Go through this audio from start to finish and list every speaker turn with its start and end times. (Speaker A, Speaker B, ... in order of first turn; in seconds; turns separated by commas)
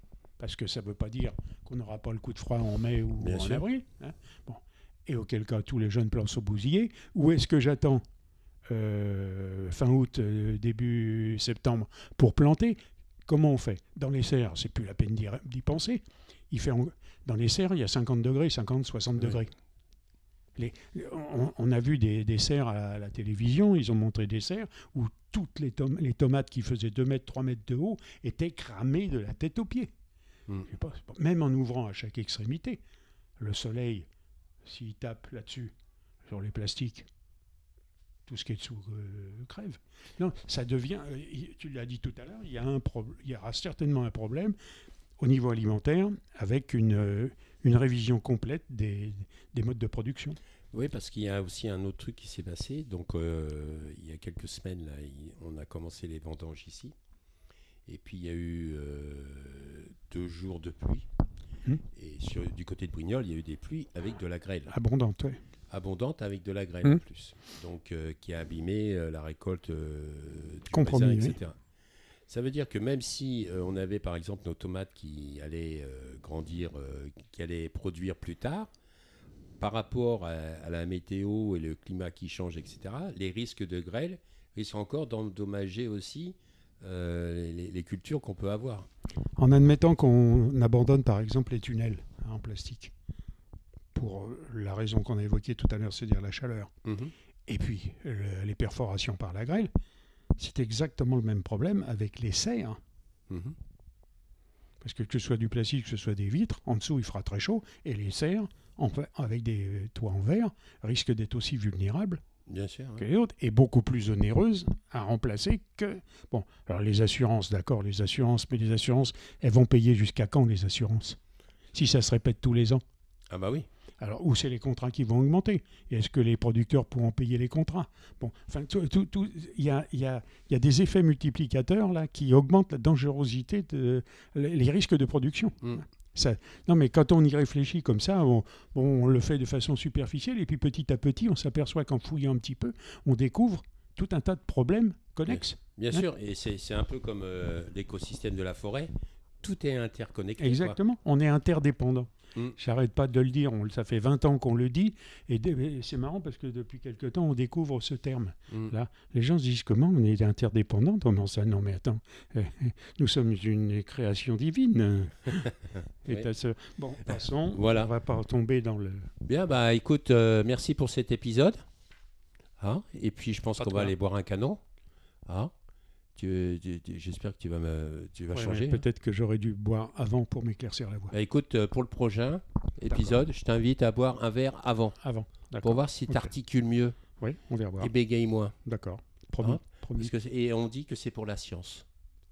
Speaker A: 0.4-8.0, Speaker B: 3.2-3.6, Speaker A: 8.7-19.5, Speaker A: 20.6-29.9, Speaker A: 30.7-32.8, Speaker A: 33.4-34.1, Speaker A: 34.6-35.7, Speaker A: 36.3-37.1, Speaker A: 38.2-44.5, Speaker A: 45.2-50.4, Speaker B: 50.7-56.9, Speaker B: 57.9-61.0, Speaker B: 61.9-64.7, Speaker A: 64.7-65.4, Speaker B: 65.7-71.5, Speaker A: 70.7-71.4, Speaker B: 72.3-78.7, Speaker B: 79.6-88.9, Speaker A: 89.4-92.9, Speaker A: 93.9-96.7, Speaker B: 96.8-97.1, Speaker A: 97.5-99.7, Speaker A: 100.4-102.8, Speaker B: 103.3-103.5, Speaker A: 104.8-112.2, Speaker B: 112.5-113.0, Speaker A: 113.0-121.2, Speaker A: 121.7-122.8, Speaker B: 123.3-123.7, Speaker A: 124.0-146.1, Speaker B: 145.3-150.8, Speaker A: 150.4-169.1, Speaker B: 167.1-167.9, Speaker B: 169.2-171.6, Speaker B: 172.6-174.6, Speaker A: 173.6-173.9, Speaker B: 175.2-175.5, Speaker B: 176.2-178.8, Speaker A: 178.3-181.1, Speaker B: 181.1-185.0, Speaker A: 182.9-183.2, Speaker A: 185.0-186.3, Speaker B: 185.6-186.9, Speaker A: 187.2-187.9, Speaker B: 187.8-188.6, Speaker A: 188.6-190.1, Speaker B: 189.4-191.8